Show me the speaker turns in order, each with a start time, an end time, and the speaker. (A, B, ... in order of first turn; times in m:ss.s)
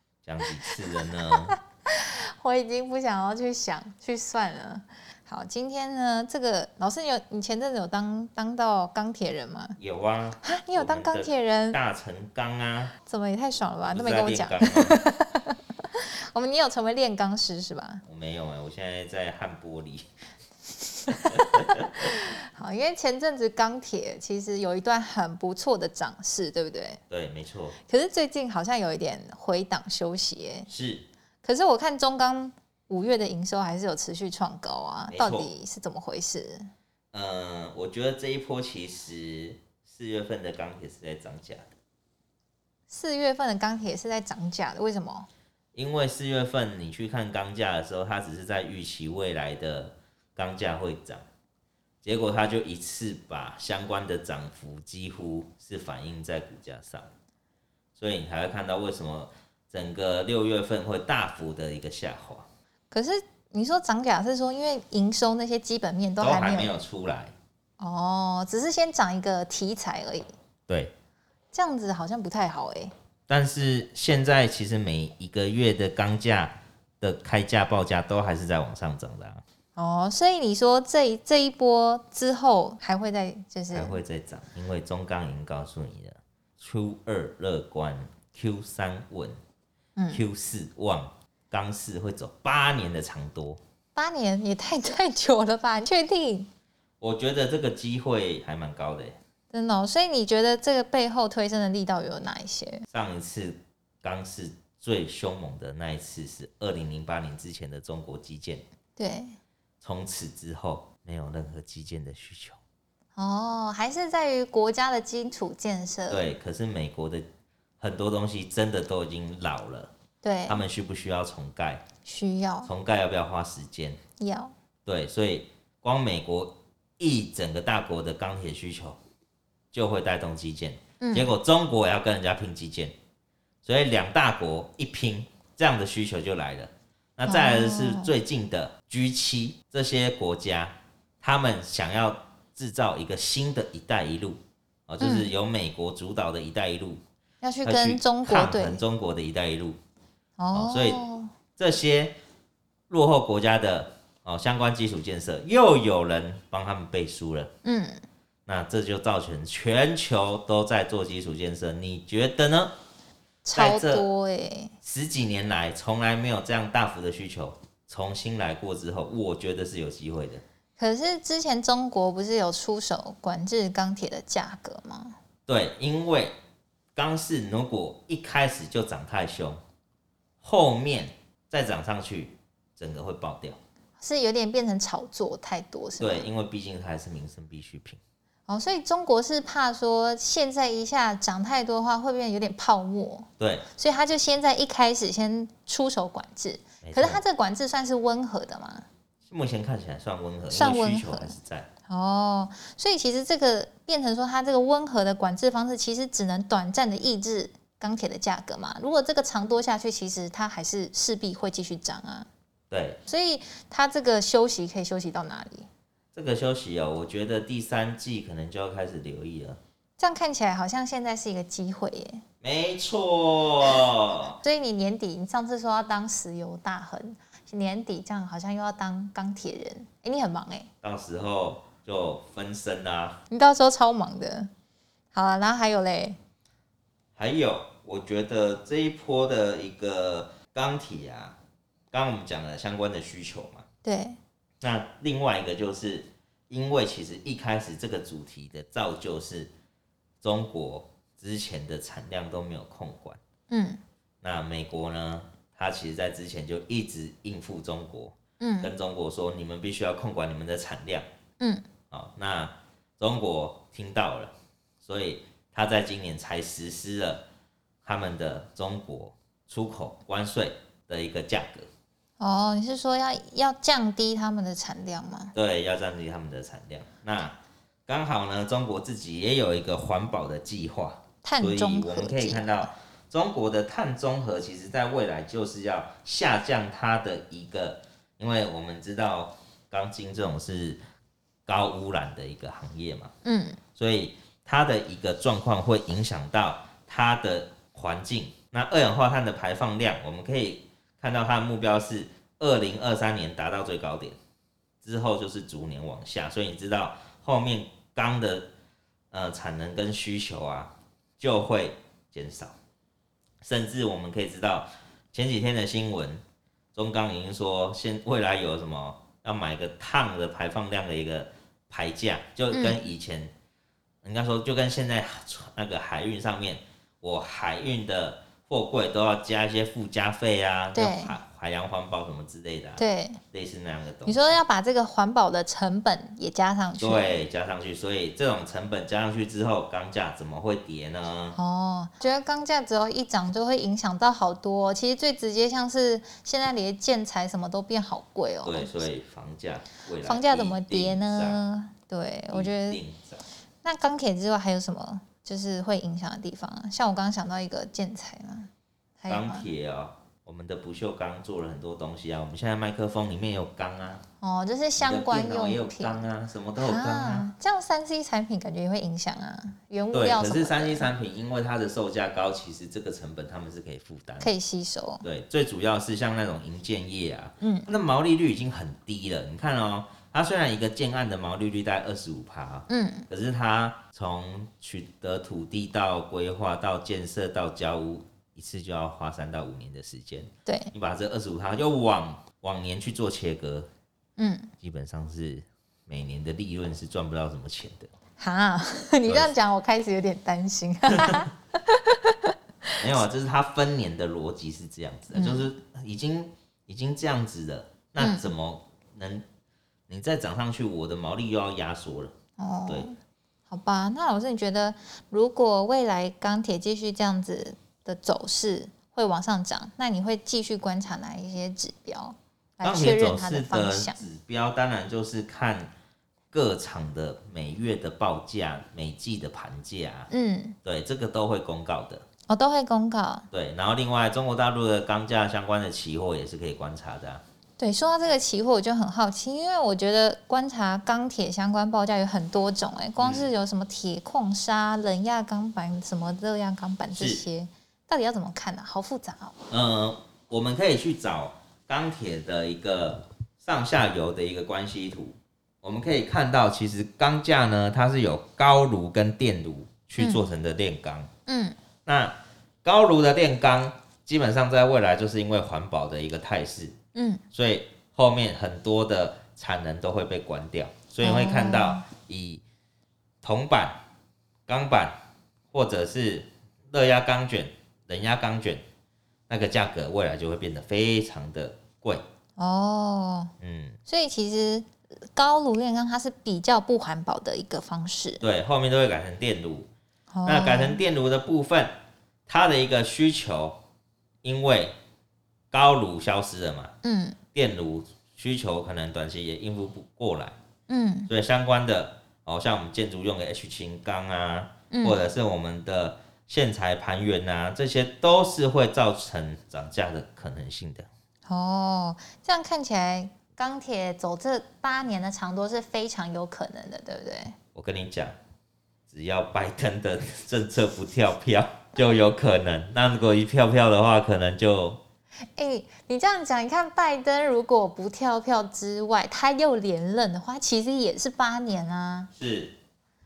0:00.2-0:01.5 A
0:01.3-0:09.8 B
0:09.8-0:12.9 A
0:10.4-0:11.8 B
0:13.0-0:18.0 B
0:13.9-0:15.0 A
0:18.1-0:20.1 A
0:21.0-0:27.0 B
0:27.1-0:27.8 A
0:27.8-0:30.7 B
0:30.7-0:31.1 A
0:31.4-0:36.7 B
0:35.1-0:35.5 A
0:37.1-0:41.7 A
0:42.9-0:45.3 B
0:45.7-0:51.2 A
0:52.0-0:57.1 A
0:58.0-1:02.5 A
1:02.9-1:06.7 B
1:06.2-1:07.3 A
1:07.8-1:10.3 B
1:11.5-1:12.9 B
1:13.3-1:19.4 A
1:19.8-1:24.0 B
1:23.7-1:29.4 A
1:30.0-1:30.2 B
1:30.1-1:33.6 A
1:33.9-1:36.5 B
1:37.0-1:39.2 A
1:39.5-1:42.8 B
1:42.9-1:48.6 A
1:49.0-1:49.4 B
1:49.8-1:52.6 A
1:53.2-1:56.3 B
1:56.1-1:57.2 A
1:57.8-1:59.9 A
2:00.2-2:00.6 B
2:00.5-2:01.8 A
2:02.0-2:02.7 B
2:02.6-2:04.0 A
2:04.2-2:04.5 B
2:04.8-2:09.0 A
2:09.7-2:12.9 A
2:11.0-2:11.3 B
2:13.6-2:27.0 A
2:17.2-2:18.1 B
2:25.0-2:25.3 B
2:27.4-2:28.8 B
2:27.6-2:29.8 A
2:30.4-2:31.3 B
2:30.5-2:31.0 A
2:31.6-2:32.2 A
2:32.9-2:37.5 A
2:37.6-2:38.0 B
2:38.4-2:42.7 A
2:43.4-2:44.7 B
2:43.5-2:44.0 A
2:44.8-2:50.4 A
2:50.8-2:55.2 B
2:55.5-2:56.3 A
2:56.9-2:59.6 A
3:00.4-3:03.6 A
3:04.0-3:06.3 B
3:06.0-3:08.0 A
3:08.5-3:18.8 B
3:13.4-3:13.6 A
3:16.8-3:17.2 A
3:19.2-3:21.7 A
3:20.5-3:21.4 B
3:21.9-3:32.3 B
3:32.7-3:33.0 A
3:33.1-3:35.7 B
3:36.1-3:39.6 A
3:40.0-3:42.2 B
3:42.4-3:44.4 A
3:44.4-3:50.7 B
3:50.8-3:53.2 A
3:53.3-3:54.5 B
3:55.1-3:56.2 B
3:57.2-4:01.4 A
4:01.9-4:03.6 A
4:03.8-4:04.2 B
4:04.6-4:09.5 A
4:10.2-4:13.2 A
4:13.5-4:13.8 B
4:14.2-4:21.1 A
4:18.4-4:18.7 B
4:21.4-4:21.6 B
4:21.9-4:27.2 A
4:27.8-4:31.7 A
4:32.2-4:35.3 B
4:35.3-4:37.4 A
4:37.9-4:50.8 A
4:41.2-4:42.7 B
4:51.4-4:53.1 A
4:53.2-4:53.6 B
4:53.8-5:04.2 A
5:04.8-5:08.5 A
5:09.1-5:12.5 A
5:13.4-5:16.2 A
5:16.7-5:23.3 A
5:22.5-5:22.8 B
5:24.0-5:34.3 A
5:30.7-5:31.1 B
5:32.8-5:33.2 B
5:34.0-5:37.2 B
5:36.8-5:41.4 A
5:41.3-5:48.9 B
5:48.4-5:51.4 A
5:50.0-5:52.8 B
5:52.3-5:53.2 A
5:53.6-5:58.5 B
5:59.0-5:59.5 B
5:59.1-6:04.0 A
6:04.2-6:10.9 B
6:04.8-6:07.3 A
6:09.9-6:14.3 A
6:14.2-6:15.0 B
6:15.0-6:33.7 A
6:17.4-6:17.7 B
6:22.7-6:23.1 B
6:30.4-6:30.7 B
6:34.2-6:34.5 B
6:34.6-6:37.9 A
6:38.2-6:42.7 B
6:39.0-6:39.3 A
6:42.8-6:49.2 A
6:45.1-6:45.5 B
6:48.0-6:48.3 B
6:49.9-6:52.1 A
6:52.4-6:53.0 B
6:53.5-7:04.0 B
7:02.6-7:05.7 A
7:06.3-7:10.1 A
7:10.1-7:10.6 B
7:10.6-7:12.0 A
7:12.3-7:13.3 B
7:13.3-7:17.2 A
7:17.6-7:29.4 B
7:23.0-7:23.3 A
7:26.9-7:27.2 A
7:29.5-7:41.1 A
7:40.0-7:40.2 B
7:41.3-7:41.6 B
7:41.8-7:46.7 A
7:46.9-7:47.2 B
7:47.3-7:52.4 A
7:51.0-7:51.8 B
7:53.2-7:53.8 A
7:54.5-7:55.0 A
7:55.5-7:58.6 A
7:59.3-8:02.0 A
8:02.4-8:03.3 B
8:03.4-8:03.8 A
8:03.9-8:08.2 B
8:08.2-8:09.7 A
8:10.1-8:10.8 B
8:10.2-8:11.8 A
8:12.3-8:13.6 A
8:14.2-8:14.7 A
8:15.5-8:16.7 A
8:16.8-8:17.2 B
8:17.3-8:20.4 A
8:20.7-8:21.1 B
8:21.1-8:30.9 A
8:24.7-8:25.0 B
8:31.2-8:37.4 B
8:37.5-8:38.1 A
8:38.9-8:44.8 A
8:45.4-8:52.1 B
8:52.1-8:52.5 A